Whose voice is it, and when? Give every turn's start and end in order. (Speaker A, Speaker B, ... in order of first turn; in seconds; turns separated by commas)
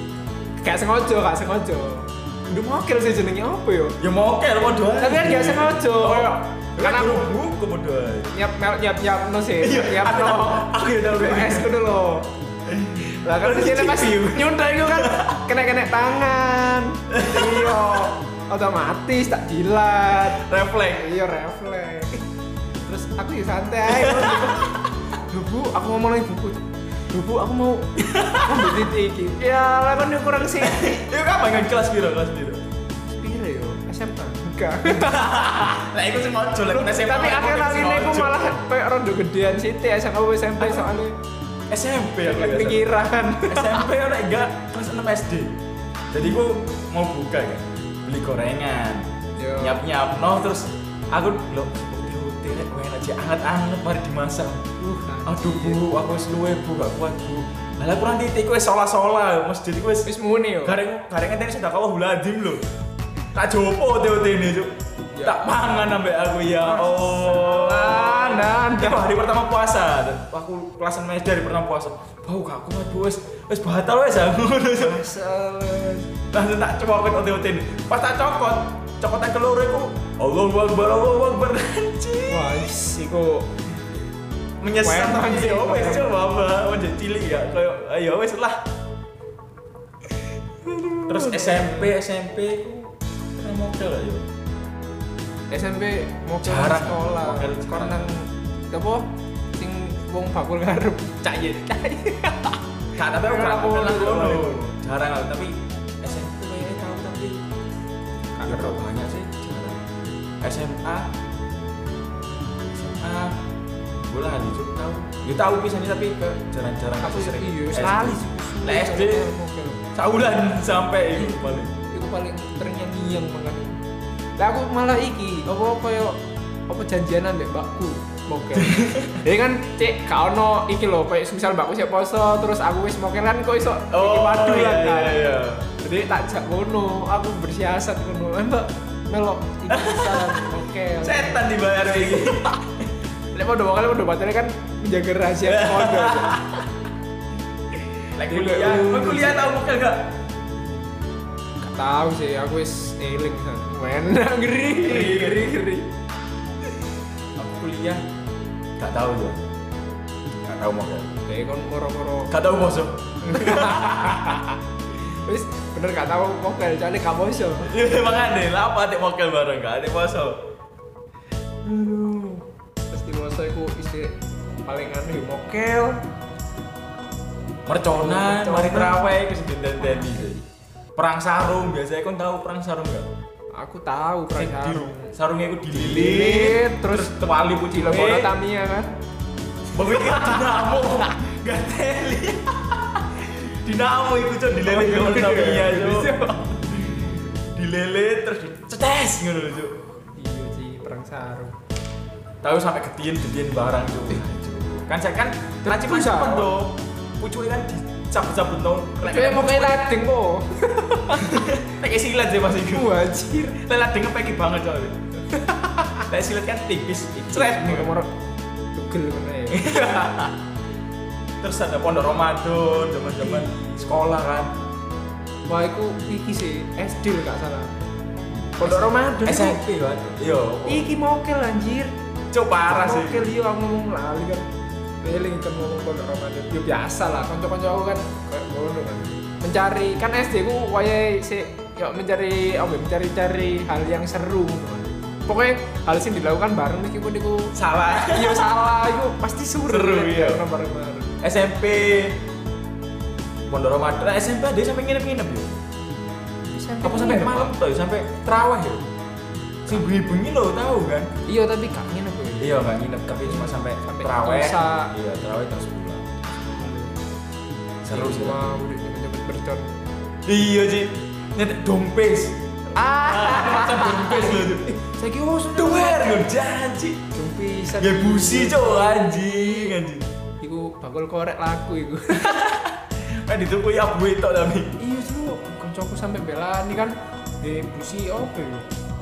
Speaker A: 0.6-4.0, Speaker B: 4.0-8.3, Speaker A: 5.0-7.3, Speaker A: 8.3-12.3, Speaker B: 9.6-11.7, Speaker B: 12.7-15.4, Speaker A: 13.1-22.2, Speaker B: 17.1-18.1, Speaker B: 20.2-21.1, Speaker A: 22.9-31.0, Speaker B: 23.9-24.8, Speaker B: 28.0-28.8, Speaker B: 30.6-32.6, Speaker A: 33.1-35.6, Speaker B: 34.9-38.6, Speaker A: 36.6-41.2, Speaker B: 40.6-41.0, Speaker B: 41.7-42.9, Speaker A: 42.2-43.9, Speaker B: 43.5-45.5, Speaker B: 46.1-54.6, Speaker A: 49.4-49.8, Speaker A: 54.8-55.8, Speaker B: 55.2-60.1, Speaker A: 60.0-60.8, Speaker B: 60.6-62.6, Speaker B: 63.3-64.7, Speaker A: 65.1-65.5, Speaker B: 65.2-75.0, Speaker A: 66.6-69.1, Speaker A: 74.8-76.1, Speaker B: 76.3-82.7, Speaker A: 82.3-83.5, Speaker B: 84.6-88.6, Speaker A: 84.8-86.1, Speaker A: 90.6-91.9, Speaker B: 91.1-94.2, Speaker A: 95.5-99.0, Speaker B: 96.4-98.1, Speaker A: 99.6-104.6, Speaker B: 103.0-107.4, Speaker A: 108.3-108.8, Speaker B: 108.5-109.8, Speaker B: 110.4-111.1, Speaker B: 112.7-113.4, Speaker B: 114.1-119.3, Speaker A: 117.0-119.8, Speaker B: 119.9-121.7, Speaker A: 121.1-123.8, Speaker A: 124.4-126.2, Speaker A: 126.7-142.3, Speaker B: 128.6-129.2, Speaker B: 133.9-135.7, Speaker B: 139.7-142.7, Speaker A: 143.3-146.4, Speaker B: 145.4-146.6, Speaker B: 148.1-150.1, Speaker A: 148.2-149.5, Speaker A: 151.6-155.9, Speaker B: 154.8-155.6, Speaker B: 157.3-158.0, Speaker B: 158.8-159.4, Speaker B: 160.4-161.1, Speaker A: 161.2-162.3, Speaker B: 162.3-164.4, Speaker A: 163.2-167.7, Speaker B: 167.6-170.4, Speaker A: 171.6-176.0, Speaker B: 177.7-180.4, Speaker A: 177.9-179.2, Speaker A: 179.9-180.3, Speaker B: 180.9-183.1, Speaker A: 183.5-185.1, Speaker B: 184.3-188.3, Speaker A: 185.7-187.2, Speaker A: 187.7-188.9, Speaker B: 189.7-199.7, Speaker A: 190.0-190.4, Speaker A: 194.6-196.6, Speaker A: 200.1-201.5, Speaker B: 202.4-209.8, Speaker A: 205.6-206.5, Speaker A: 209.0-211.3, Speaker B: 211.2-213.0, Speaker A: 212.7-213.6, Speaker B: 213.5-214.9, Speaker A: 215.3-216.0, Speaker B: 216.1-217.9, Speaker A: 217.3-218.1, Speaker A: 218.7-219.9, Speaker B: 219.5-220.4, Speaker B: 221.4-224.5, Speaker A: 223.2-224.1, Speaker A: 225.4-227.7, Speaker A: 228.6-229.7, Speaker B: 228.6-230.9, Speaker A: 230.7-231.9, Speaker B: 232.3-233.3, Speaker A: 232.7-234.4, Speaker A: 235.0-251.1, Speaker B: 247.5-248.5, Speaker B: 249.6-250.4, Speaker B: 251.2-252.2, Speaker B: 253.5-255.6, Speaker A: 256.5-257.5, Speaker B: 256.8-258.8, Speaker B: 259.6-261.1, Speaker A: 261.2-262.6, Speaker B: 262.4-266.1, Speaker A: 263.1-264.9, Speaker A: 266.3-266.9, Speaker B: 267.8-268.6, Speaker A: 267.9-269.8, Speaker B: 270.2-274.7, Speaker A: 272.7-276.3, Speaker B: 275.5-277.0, Speaker A: 277.1-279.8, Speaker B: 277.7-280.1, Speaker A: 280.4-282.5, Speaker B: 282.1-284.7, Speaker A: 284.8-288.7